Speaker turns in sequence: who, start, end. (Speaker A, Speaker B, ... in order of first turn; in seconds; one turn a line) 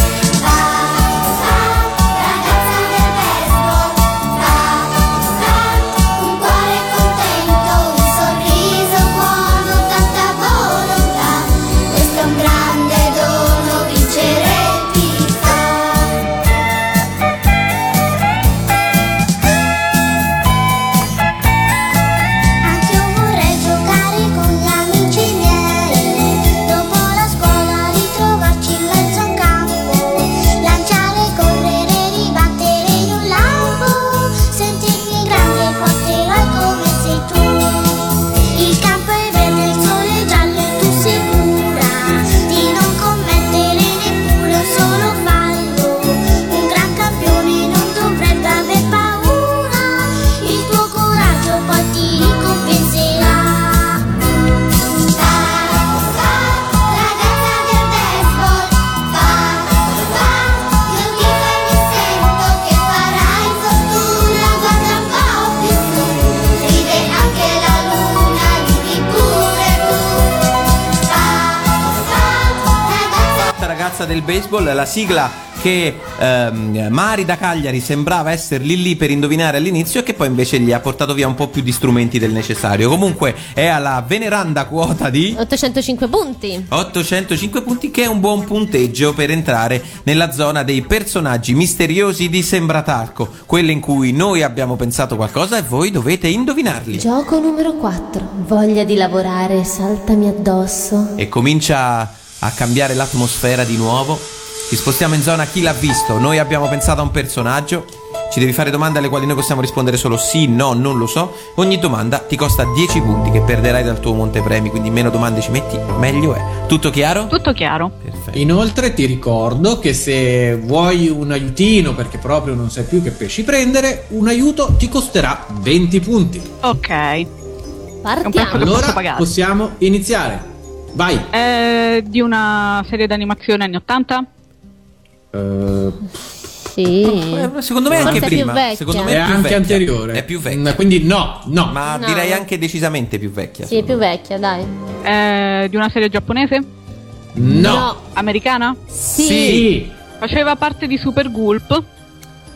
Speaker A: 0.3-16.2
Speaker A: 22.6-54.1
Speaker A: 55.0-70.5
Speaker A: 71.0-73.5
Speaker B: 73.4-85.4
Speaker C: 85.4-86.7
Speaker B: 86.7-97.0
Speaker C: 97.0-101.2
Speaker B: 101.2-117.4
Speaker D: 117.3-117.9
Speaker B: 118.0-118.5
Speaker E: 118.3-126.5
Speaker D: 126.6-127.3
Speaker C: 128.0-128.9
Speaker D: 128.2-129.3
Speaker E: 128.5-131.3
Speaker D: 131.3-134.3
Speaker E: 135.3-136.0
Speaker C: 136.7-139.2
Speaker B: 137.0-140.8
Speaker E: 137.9-138.5
Speaker E: 139.1-141.8
Speaker B: 141.7-144.0
Speaker C: 141.9-142.4
Speaker C: 143.7-144.7
Speaker D: 145.0-146.7
Speaker E: 147.3-147.9
Speaker C: 147.5-148.0
Speaker D: 148.0-148.8
Speaker C: 148.9-149.7
Speaker B: 149.2-149.7
Speaker E: 149.2-149.9
Speaker D: 150.2-151.8